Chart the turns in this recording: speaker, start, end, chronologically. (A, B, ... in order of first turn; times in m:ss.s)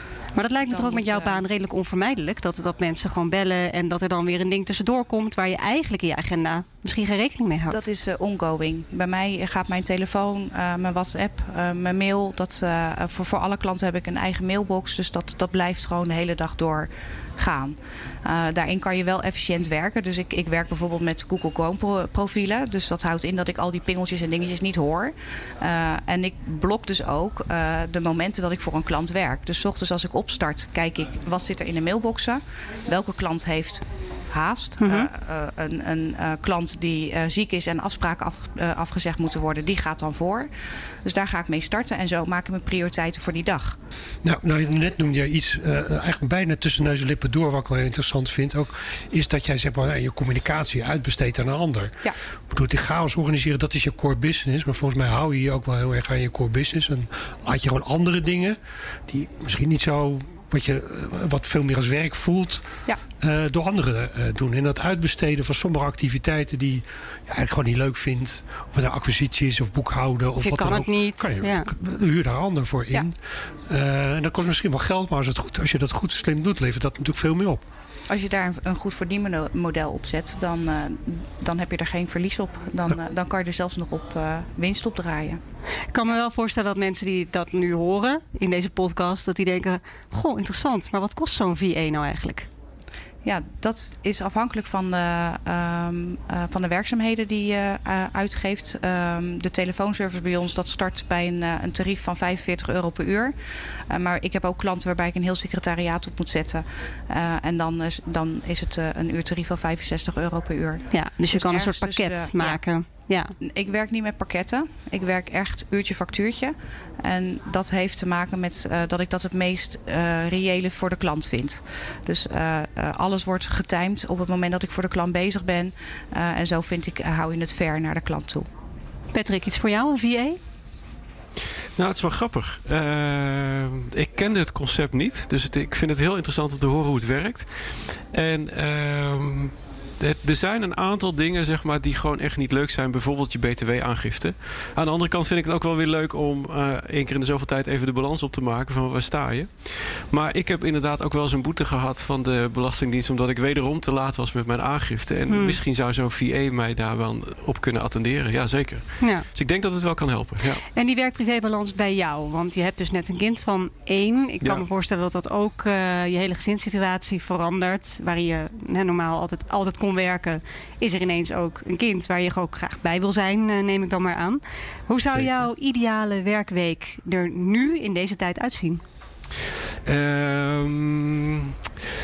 0:00.4-0:07.9 A
0:00.7-0:01.4 B
0:07.7-0:40.5 B
0:34.8-0:35.1 A
0:41.0-0:43.8 B
0:44.2-1:17.6 C
1:10.4-1:11.7 A
1:18.1-1:25.4 B
1:25.9-1:32.5 A
1:33.2-1:43.4 B
1:43.9-1:52.6 B
1:50.9-1:53.3 A
1:53.4-2:08.5 B
2:09.1-2:10.4 A
2:11.8-2:40.6 D
2:35.3-2:35.6 A
2:39.0-2:39.3 A
2:40.7-2:58.8 A
2:55.1-2:55.4 D
2:59.8-3:01.6 D